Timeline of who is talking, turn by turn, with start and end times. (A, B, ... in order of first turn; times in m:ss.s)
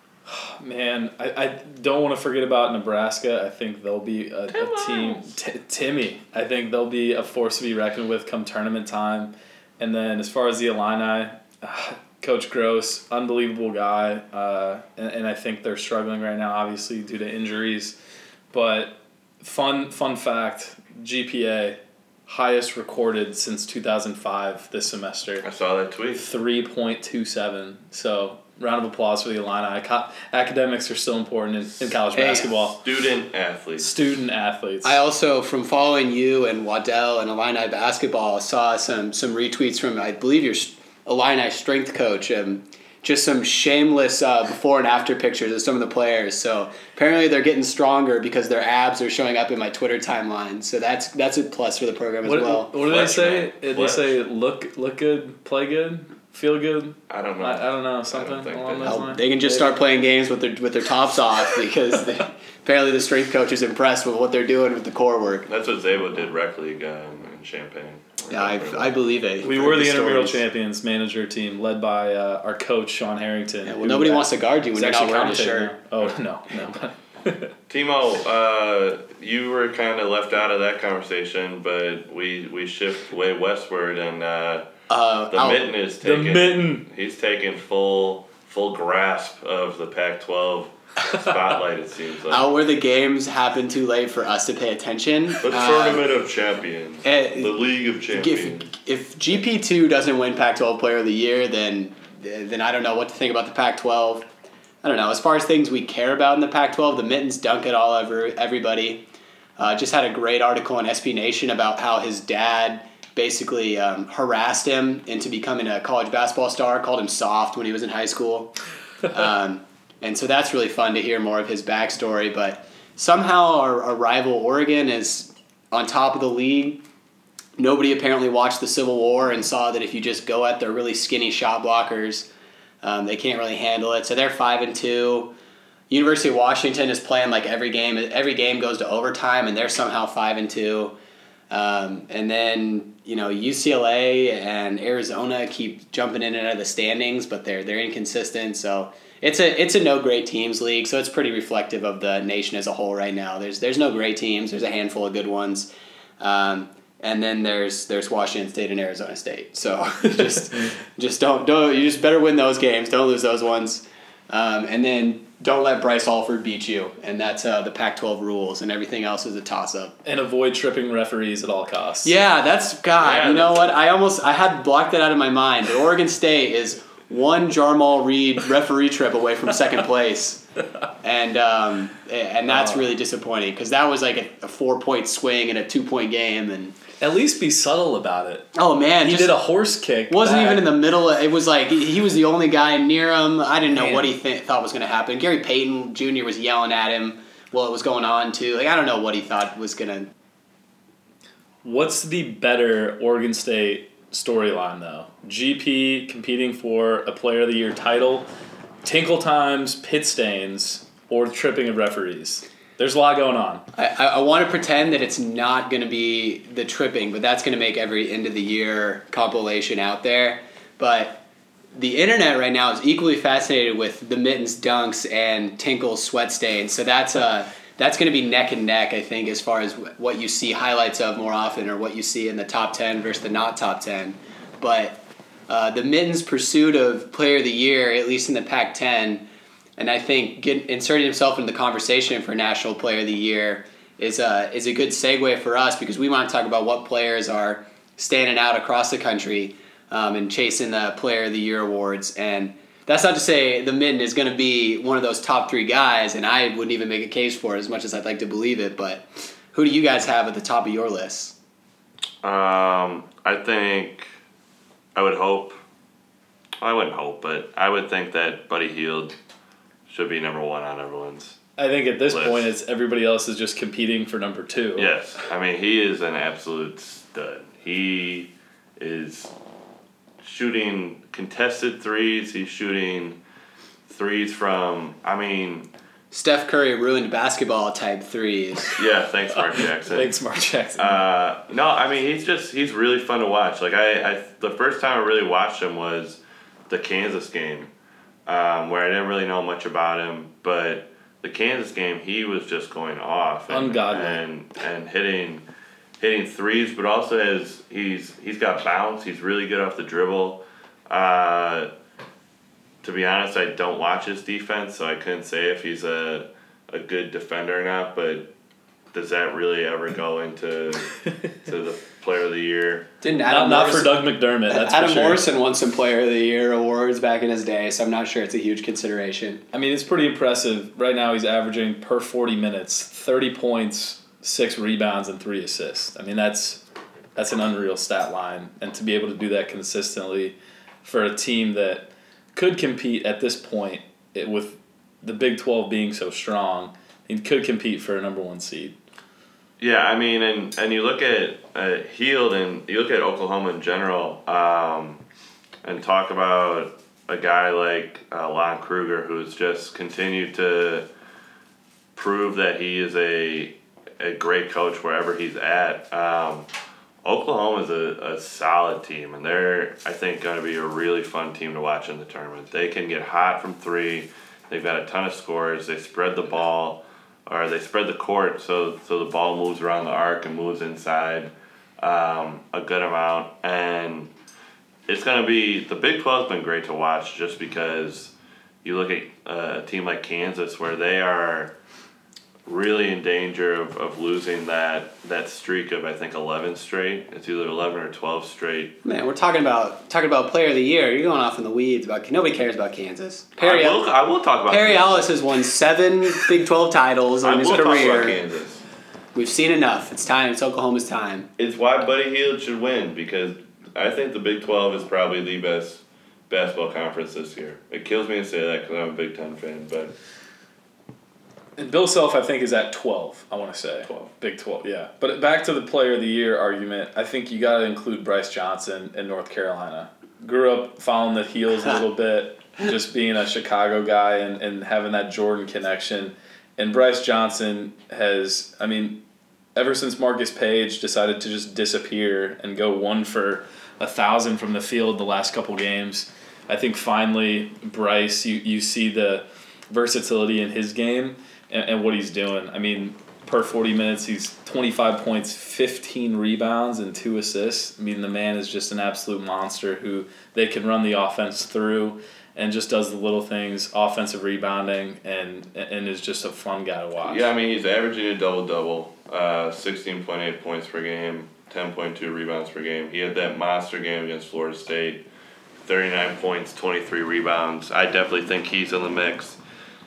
0:00.2-0:18.0 A
0:04.5-0:05.4 B
0:18.5-0:25.4 A
0:25.4-0:26.3 B
0:26.2-0:32.8 A
0:32.1-0:32.6 C
0:32.8-0:33.9 B
0:33.8-0:35.0 A
0:34.8-0:52.8 C
0:52.2-0:59.8 A
0:52.8-0:54.2 B
0:57.1-0:59.1 B
0:58.8-1:05.5 C
1:05.5-1:08.9 B
1:08.3-1:10.4 C
1:09.4-1:17.5 A
1:13.6-1:15.8 C
1:17.7-1:24.6 B
1:24.9-1:25.7 C
1:25.3-1:32.5 B
1:26.0-1:26.9 A
1:32.3-1:36.0 C
1:35.4-1:38.7 B
1:37.0-1:37.6 C
1:38.1-1:44.3 C
1:44.8-1:49.0 C
1:49.6-1:58.5 C
1:59.1-2:06.8 C
2:07.6-2:12.3 C
2:12.8-2:15.3 C
2:15.9-2:20.9 C
2:21.5-2:35.7 C
2:36.2-2:50.0 C
2:50.0-2:52.1 A
2:52.0-3:00.4 C
2:53.0-2:53.8 B
3:01.0-3:06.8 C
3:02.5-3:02.8 A
3:07.0-3:08.5 A
3:08.5-3:09.4 C
3:09.0-3:10.6 A
3:10.1-3:20.1 C
3:13.8-3:14.1 A
3:21.6-3:28.3 A
3:28.8-3:33.6 A
3:33.8-3:41.2 C
3:41.8-3:59.2 C
3:59.8-4:21.4 C
4:22.2-4:24.1 B
4:25.0-4:25.6 B
4:26.6-4:29.1 B
4:29.9-4:31.4 B
4:31.6-4:34.9 A
4:32.1-4:32.5 B
4:34.8-4:39.3 B
4:40.2-4:43.2 B
4:43.9-4:45.7 B
4:46.1-4:48.8 C
4:48.8-4:50.1 B
4:49.3-4:51.0 A
4:50.8-4:57.7 B
4:58.2-5:05.4 B
5:03.5-5:04.2 A
5:06.0-5:11.7 B
5:12.8-5:18.3 B
5:18.9-5:22.9 B
5:23.0-5:29.4 C
5:23.2-5:25.3 A
5:29.5-5:36.6 A
5:37.2-5:48.8 A
5:49.6-5:55.0 B
5:55.6-6:00.8 B
6:02.0-6:06.5 B
6:07.0-6:24.1 B
6:24.9-6:28.1 B
6:28.6-6:31.5 B
6:32.5-6:38.8 B
6:38.8-6:43.8 C
6:43.4-6:45.1 B
6:44.5-6:48.2 C
6:47.2-6:48.6 B
6:49.2-6:51.3 C
6:51.4-6:59.9 B
7:01.6-7:19.0 A
7:19.5-7:47.3 A
7:47.0-7:55.0 B
7:55.6-7:59.4 B